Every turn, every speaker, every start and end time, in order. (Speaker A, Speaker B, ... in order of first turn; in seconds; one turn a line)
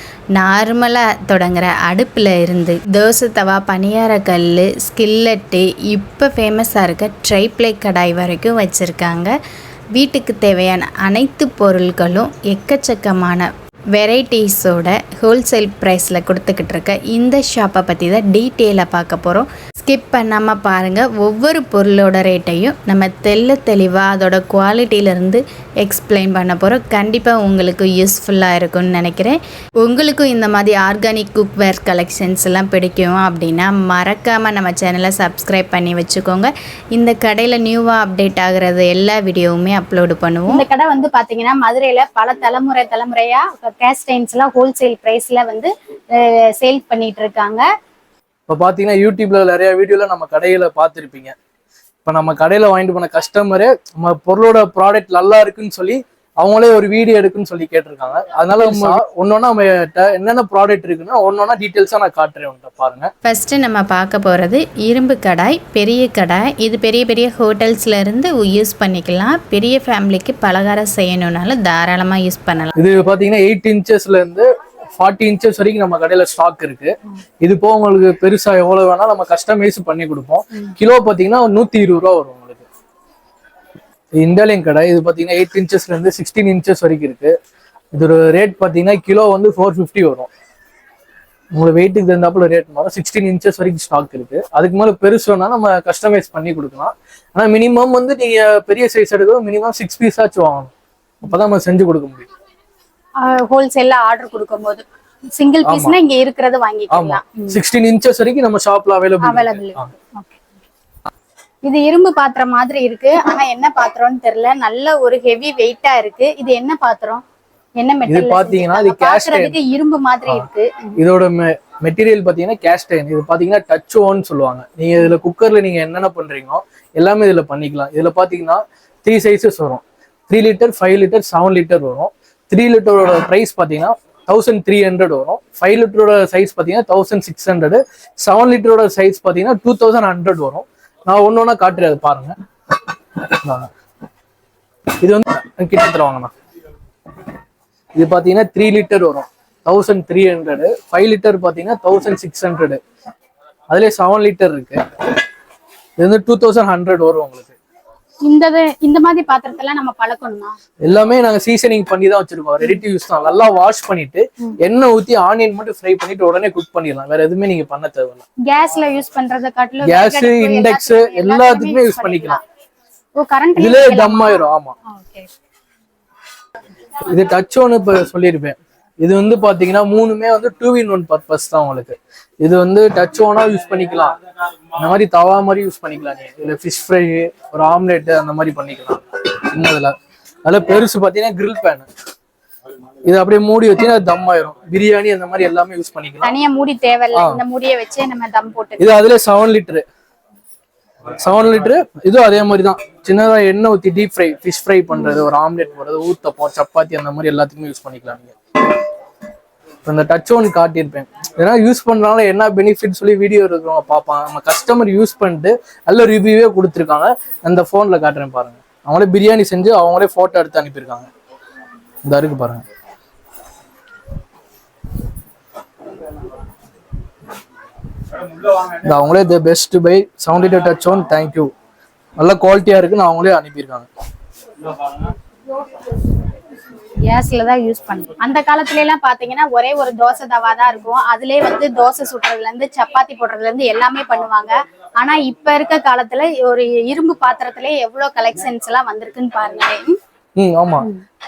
Speaker A: 0.3-9.3
Speaker A: 9.9-40.6
Speaker B: 40.5-47.6
Speaker C: 48.5-51.3
Speaker C: 52.0-63.1
Speaker A: 63.2-72.7
Speaker C: 72.8-82.7
Speaker C: 84.2-87.3
Speaker C: 87.9-90.3
Speaker C: 91.5-102.3
Speaker B: 103.2-104.8
Speaker B: 105.3-107.6
Speaker C: 105.6-106.0
Speaker C: 106.9-109.9
Speaker B: 109.2-110.4
Speaker B: 111.7-117.2
Speaker B: 117.8-121.0
Speaker C: 118.1-119.6
Speaker C: 120.3-142.3
Speaker C: 143.2-143.7
Speaker C: 145.0-146.3
Speaker C: 147.9-152.8
Speaker C: 153.7-154.8
Speaker C: 156.0-157.5
Speaker B: 158.2-160.6
Speaker C: 160.8-168.2
Speaker B: 168.4-172.4
Speaker C: 169.8-172.4
Speaker B: 173.2-175.3
Speaker C: 173.6-174.7
Speaker C: 177.1-184.2
Speaker C: 184.8-191.9
Speaker C: 193.0-196.3
Speaker B: 196.2-199.0
Speaker C: 197.2-197.4
Speaker C: 198.8-199.8
Speaker C: 201.1-208.3
Speaker C: 209.8-221.1
Speaker C: 222.0-222.6
Speaker C: 228.8-231.5
Speaker C: 232.2-233.9
Speaker B: 237.0-250.0
Speaker C: 250.3-250.9